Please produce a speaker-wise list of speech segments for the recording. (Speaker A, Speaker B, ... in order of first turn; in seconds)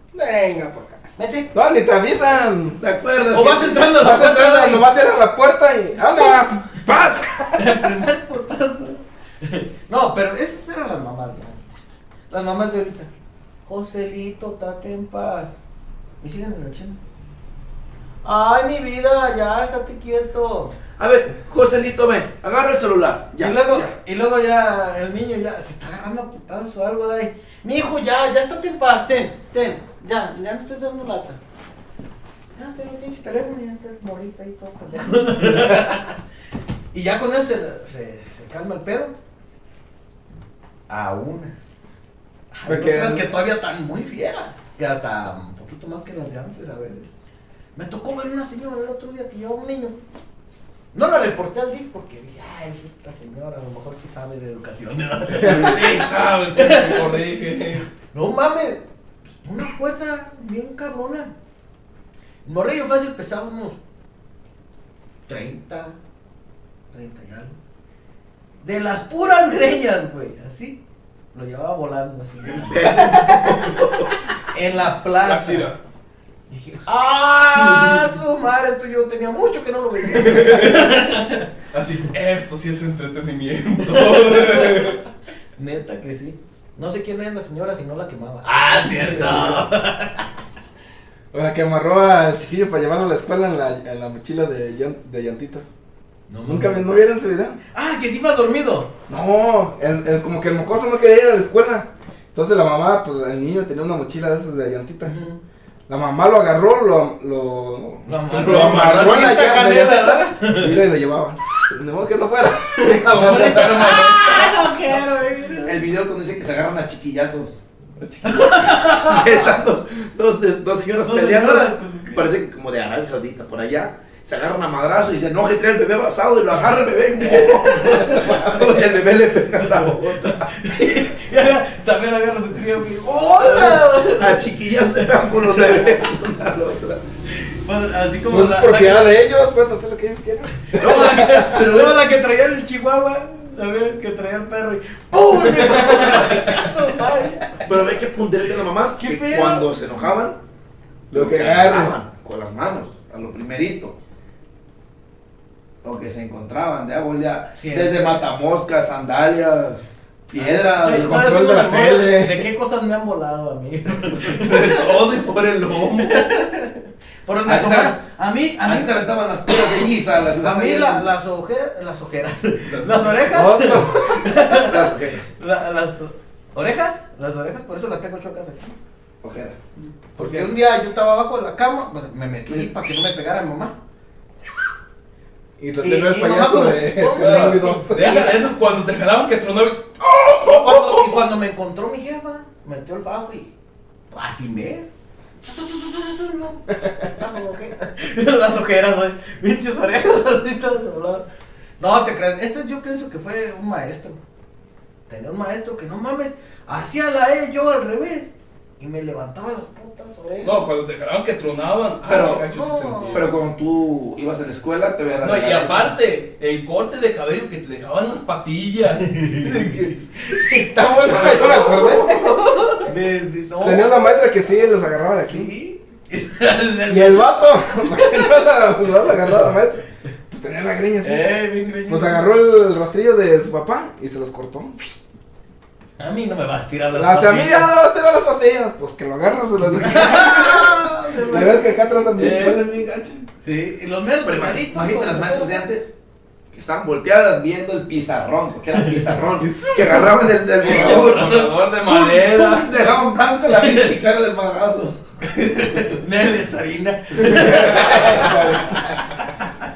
Speaker A: 0.1-0.9, 1.5-2.8, 4.0-7.9, 35.6-35.9, 42.7-43.3, 91.3-95.7, 96.5-97.6, 99.1-105.2, 105.9-114.0, 118.0-118.6, 128.1-128.5, 138.3-141.7, 151.1-151.9, 160.8-162.5, 173.3-174.3, 180.2-180.5, 185.6-188.4, 219.4-222.5, 223.6-225.5, 226.9-231.3, 231.9-234.9, 236.9-243.3, 249.4-250.1, 257.2-259.3
Speaker B: 1.2-1.5, 3.3-4.9, 7.6-13.1, 13.7-15.6, 16.2-17.0, 18.2-20.8, 23.4-31.4, 32.6-36.1, 36.9-39.1, 40.9-41.8, 42.5-47.1, 47.8-50.0, 50.9-57.2, 58.1-58.8, 59.4-61.3, 62.5-63.8, 65.3-66.0, 66.9-67.6, 68.6-70.8, 71.3-73.9, 74.5-75.7, 76.5-81.5, 83.9-85.0, 85.6-90.3, 96.3-96.8, 97.7-98.9, 105.0-105.4, 108.0-110.8, 113.1-115.8, 118.2-119.5, 121.0-122.3, 127.2-128.8, 129.5-134.4, 137.3-139.2, 140.7-147.9, 148.9-149.7, 157.6-158.2, 160.4-164.9, 166.0-169.8, 170.4-178.8, 180.2-183.8, 185.8-188.4, 190.4-193.5, 194.1-194.9, 195.4-201.2, 201.8-204.2, 205.1-210.6, 212.4-213.2, 219.1-219.7, 222.8-224.4, 225.2-227.4, 231.0-232.3, 236.0-237.7, 239.8-242.6, 243.4-245.7, 250.6-251.5, 253.5-253.9, 255.4-259.0
Speaker C: 2.8-4.0, 21.0-23.9, 72.5-74.2, 115.6-117.6, 118.3-130.5, 133.4-137.0, 140.8-142.0, 147.7-150.4, 151.1-154.0, 155.8-161.4, 167.4-168.0, 168.6-171.1, 174.4-175.3, 179.2-179.6, 212.1-212.5, 213.1-215.9, 244.2-245.9, 246.5-255.0
Speaker D: 55.4-57.9, 75.2-75.8, 77.7-78.0, 80.1-81.2, 81.7-85.0, 108.3-109.5, 112.8-114.8, 164.2-166.4, 172.7-173.6, 187.1-191.2, 210.4-213.4, 215.2-219.7, 221.0-222.7, 250.6-252.7